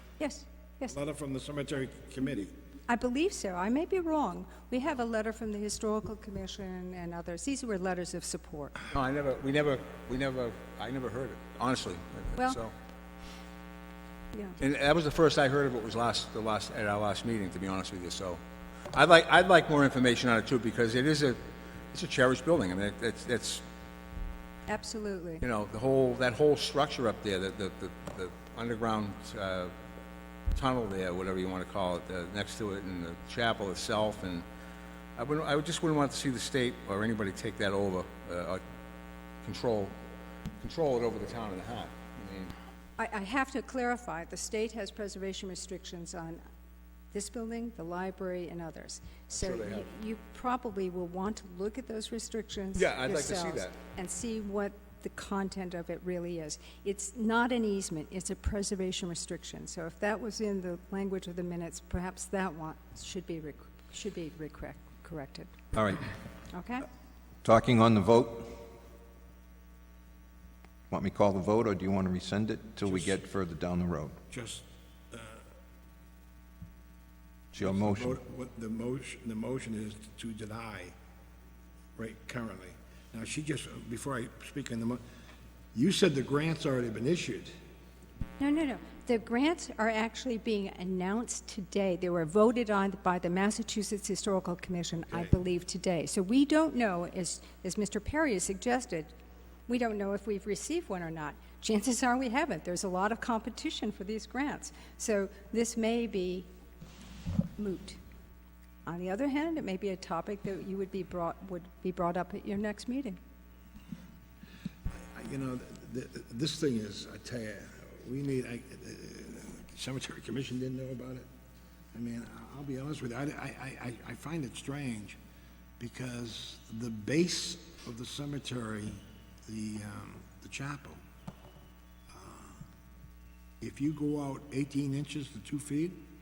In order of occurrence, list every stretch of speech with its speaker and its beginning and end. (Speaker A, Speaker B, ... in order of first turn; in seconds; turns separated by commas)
Speaker A: 0.2-0.9, Speaker B: 0.9-2.5, Speaker A: 2.9-8.8, Speaker C: 8.9-12.7, Speaker C: 14.6-18.4, Speaker C: 18.9-21.4, Speaker C: 21.9-23.6, Speaker A: 24.7-25.4, Speaker C: 25.4-29.7, Speaker C: 30.5-34.5, Speaker C: 35.2-38.6, Speaker C: 39.4-40.0, Speaker C: 40.6-42.5, Speaker A: 43.0-46.4, Speaker A: 47.1-65.7, Speaker C: 49.4-49.9, Speaker C: 52.8-53.8, Speaker D: 65.7-66.0, Speaker A: 66.5-66.9, Speaker D: 67.4-68.6, Speaker D: 70.9-74.2, Speaker B: 72.8-73.2, Speaker B: 74.3-75.4, Speaker B: 77.5-80.9, Speaker D: 77.5-78.2, Speaker B: 82.0-85.0, Speaker B: 85.7-87.5, Speaker A: 88.4-99.1, Speaker A: 99.7-106.5, Speaker A: 107.6-108.0, Speaker A: 108.9-113.2, Speaker B: 115.1-121.3, Speaker B: 121.9-125.2, Speaker B: 125.8-131.0, Speaker B: 132.1-132.6, Speaker B: 133.6-136.0